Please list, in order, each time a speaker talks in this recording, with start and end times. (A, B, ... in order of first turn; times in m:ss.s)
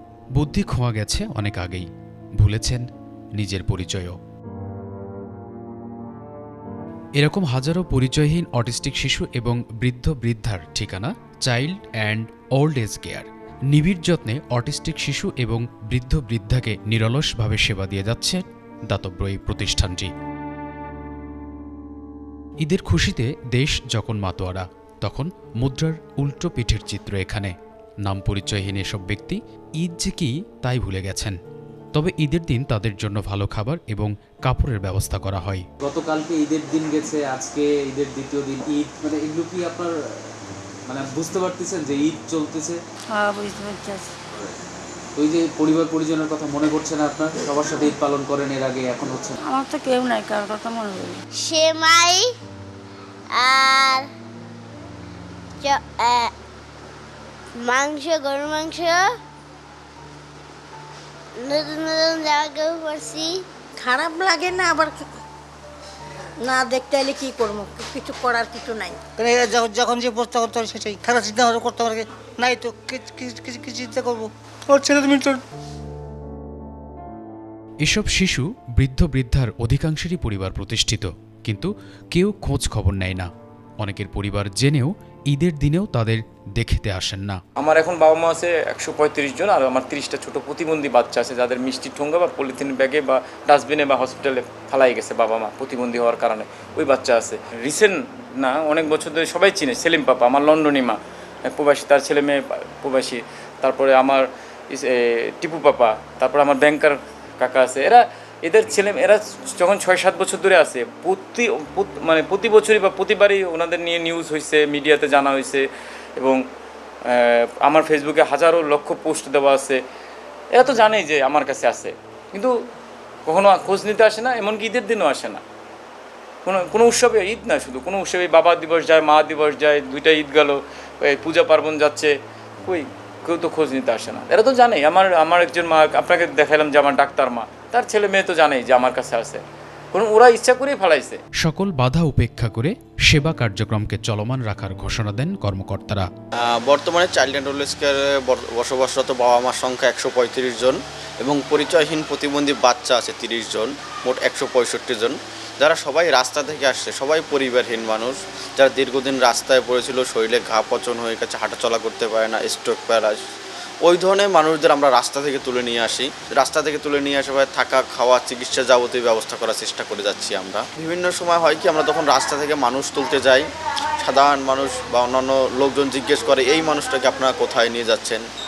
0:00.4-0:01.9 A
0:02.4-0:02.8 A
0:03.4-0:04.2 A
0:07.2-0:20.1 A
0:22.6-0:27.5 A
0:28.0-0:31.4 A
0:31.9-0:35.7 A
0:35.8-0:39.9 B
0:40.9-0:42.8 B
0:43.1-0:44.1 C
0:45.2-0:49.4 B
0:49.4-0:51.2 C
0:51.4-0:52.3 D
0:53.3-0:54.1 D
0:55.6-0:56.3 D
0:57.6-0:59.1 D
1:01.4-1:03.4 D
1:03.8-1:05.1 E
1:06.4-1:09.0 E
1:09.2-1:15.4 F
1:17.8-1:23.3 A
1:23.8-1:27.4 A
1:27.6-1:55.7 G
1:57.0-1:59.8 G
2:00.5-2:02.5 G
2:03.3-2:05.4 G
2:06.4-2:12.1 G
2:12.7-2:21.2 G
2:21.4-2:26.1 A
2:26.4-2:43.2 H
2:43.8-2:53.5 H
2:54.0-2:58.2 H